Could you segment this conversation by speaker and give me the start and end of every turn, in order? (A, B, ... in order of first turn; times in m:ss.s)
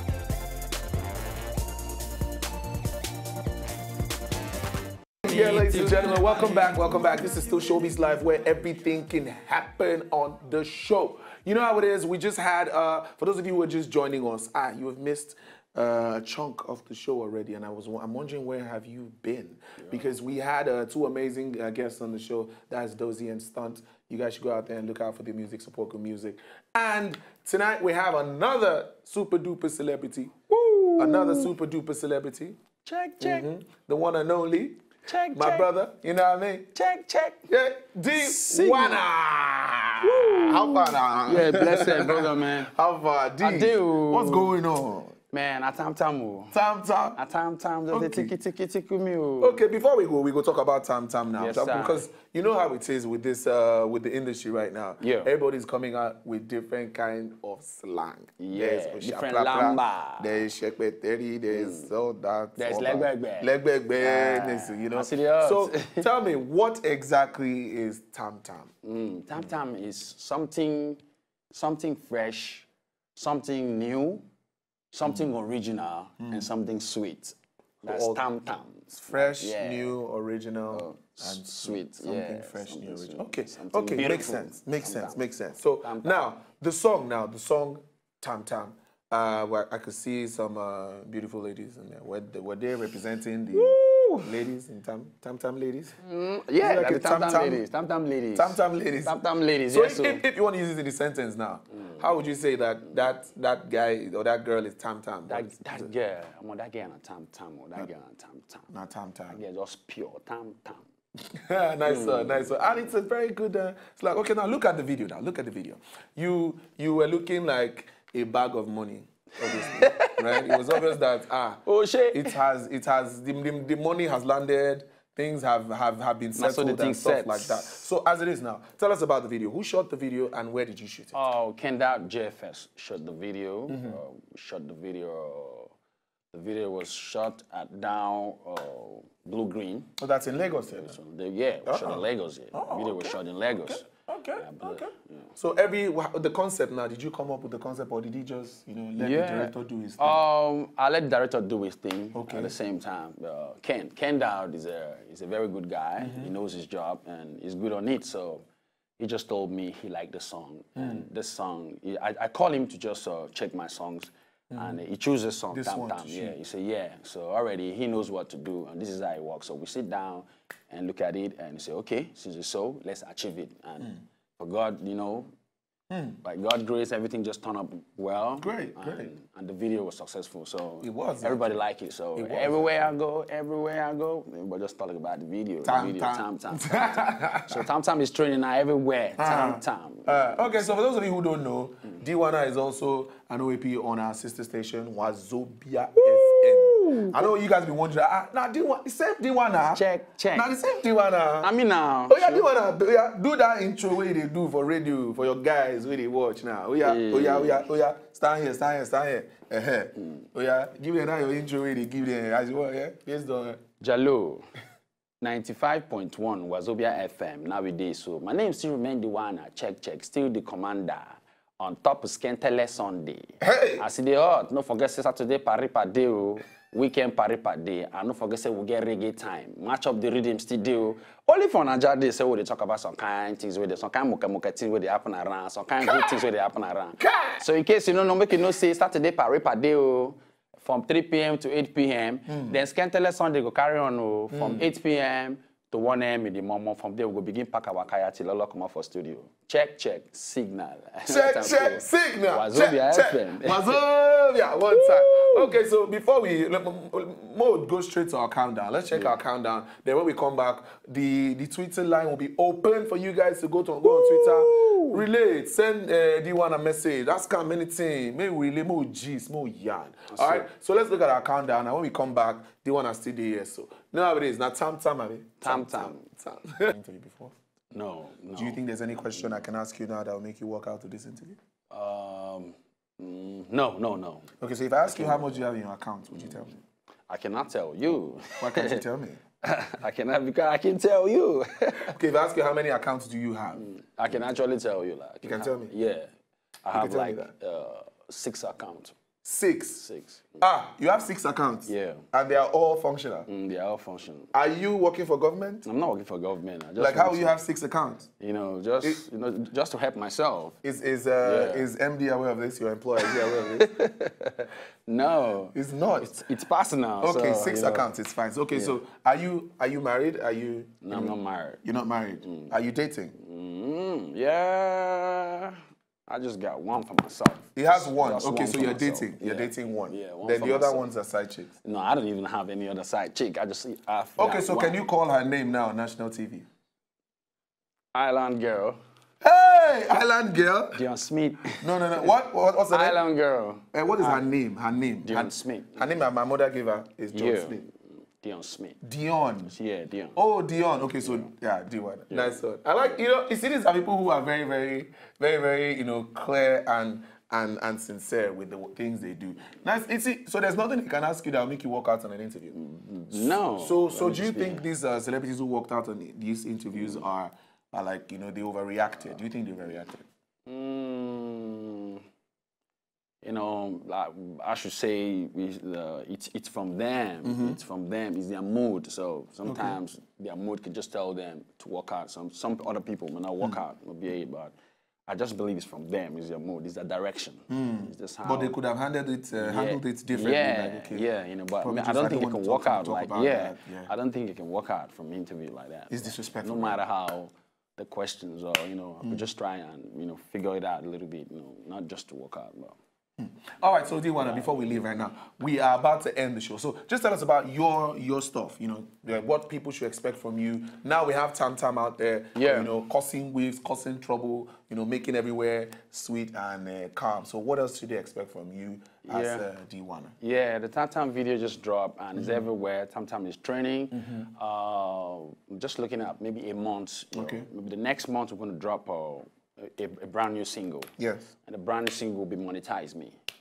0:05.2-0:30.4 A
0:05.3-0:06.6 B
0:19.8-0:20.1 B
0:30.5-0:31.5 B
0:31.0-0:32.6 A
0:32.8-0:33.5 B
0:33.2-0:34.8 A
0:35.1-0:35.7 B
0:35.3-0:36.7 A
0:36.8-0:37.5 B
0:37.5-0:45.2 A
0:38.1-0:39.0 B
0:40.0-0:42.7 B
0:43.4-0:44.5 B
0:45.3-0:46.6 B
0:46.5-0:47.2 A
0:47.1-0:49.6 B
0:47.9-0:48.3 A
0:49.4-1:08.7 A
0:51.4-0:52.0 B
0:55.0-0:55.3 B
0:58.4-1:00.5 B
1:01.5-1:01.9 B
1:02.6-1:06.1 B
1:08.8-1:11.0 B
1:11.5-1:14.2 B
1:14.9-1:20.0 B
1:17.8-1:18.2 A
1:19.0-1:36.0 A
1:20.7-1:25.3 B
1:25.8-1:26.2 B
1:33.5-1:34.3 B
1:36.0-1:40.2 B
1:36.6-1:37.6 A
1:38.3-1:39.2 A
1:39.7-1:45.9 A
1:45.3-1:48.7 B
1:48.7-1:49.4 A
1:49.3-1:50.8 B
1:51.2-2:11.2 A
1:51.9-1:52.7 B
1:59.4-2:00.8 B
2:01.6-2:02.4 B
2:06.4-2:07.9 B
2:11.1-2:15.7 B
2:13.7-2:14.0 A
2:16.3-2:19.9 B
2:20.0-2:21.0 A
2:20.7-2:25.3 B
2:21.7-2:30.2 A
2:29.0-2:38.4 B
2:32.1-2:32.5 A
2:36.0-2:36.3 A
2:39.0-2:55.3 B
2:40.8-2:41.0 A
2:44.5-2:44.8 A
2:45.5-2:46.4 A
2:55.9-2:56.2 A
2:56.2-3:10.7 B
2:58.4-2:59.1 A
3:00.8-3:01.6 A
3:02.2-3:02.9 A
3:05.6-3:07.7 A
3:09.2-3:21.5 A
3:16.0-3:17.3 B
3:19.7-3:20.5 B
3:21.4-3:22.5 B
3:22.1-3:33.6 A
3:26.8-3:27.7 B
3:33.8-3:34.4 B
3:35.2-4:13.8 B
3:43.4-3:43.8 A
3:55.8-3:56.1 A
3:57.0-3:57.4 A
4:02.3-4:02.6 A
4:04.3-4:04.7 A
4:11.1-4:37.3 A
4:14.7-4:15.6 B
4:18.9-4:19.2 B
4:23.8-4:25.0 B
4:30.1-4:30.5 B
4:35.4-4:36.1 B
4:37.7-4:38.6 B
4:38.4-4:41.4 A
4:41.7-4:44.3 B
4:44.4-4:46.6 A
4:44.8-4:45.4 B
4:47.1-4:48.8 B
4:48.4-4:49.2 A
4:49.4-4:52.0 B
4:51.9-4:53.6 A
4:53.6-4:56.1 B
4:55.2-4:55.7 A
4:56.6-4:59.0 B
4:56.7-4:57.3 A
4:59.2-4:59.9 A
4:59.8-5:00.4 B
5:00.4-5:03.3 A
5:01.7-5:02.0 B
5:03.3-5:04.3 B
5:04.3-5:05.7 A
5:05.6-5:07.4 B
5:06.8-5:08.1 A
5:08.2-5:10.6 B
5:10.6-5:13.7 A
5:11.2-5:11.7 B
5:13.1-5:17.9 B
5:15.5-5:16.2 A
5:17.0-5:23.2 A
5:18.5-5:18.8 B
5:20.8-5:21.6 B
5:22.2-5:22.5 B
5:23.2-5:25.6 B
5:26.1-5:30.9 B
5:27.6-5:31.5 A
5:31.6-5:34.8 B
5:34.2-5:36.5 A
5:37.9-5:38.8 B
5:39.2-5:40.8 A
5:40.7-5:42.1 B
5:41.6-5:43.0 A
5:42.7-5:44.2 B
5:43.7-5:47.6 A
5:45.0-5:46.0 B
5:47.1-5:48.8 B
5:48.8-5:49.5 A
5:49.5-5:50.2 B
5:50.2-6:02.6 A
5:51.0-5:51.3 B
5:52.1-5:52.9 B
6:02.5-6:04.7 B
6:03.1-6:10.0 A
6:10.5-6:12.0 B
6:13.2-6:24.5 B
6:17.2-6:17.6 A
6:19.4-6:19.8 A
6:25.1-6:28.6 B
6:27.5-6:31.1 A
6:29.4-6:42.8 B
6:31.6-6:33.9 A
6:35.9-6:36.8 A
6:43.2-7:00.1 A
6:44.2-6:44.9 B
6:52.4-6:52.7 B
6:59.0-6:59.5 B
7:00.2-7:10.9 B
7:02.2-7:02.5 A
7:03.9-7:04.3 A
7:07.1-7:07.5 A
7:11.0-7:11.3 A
7:11.5-7:13.2 B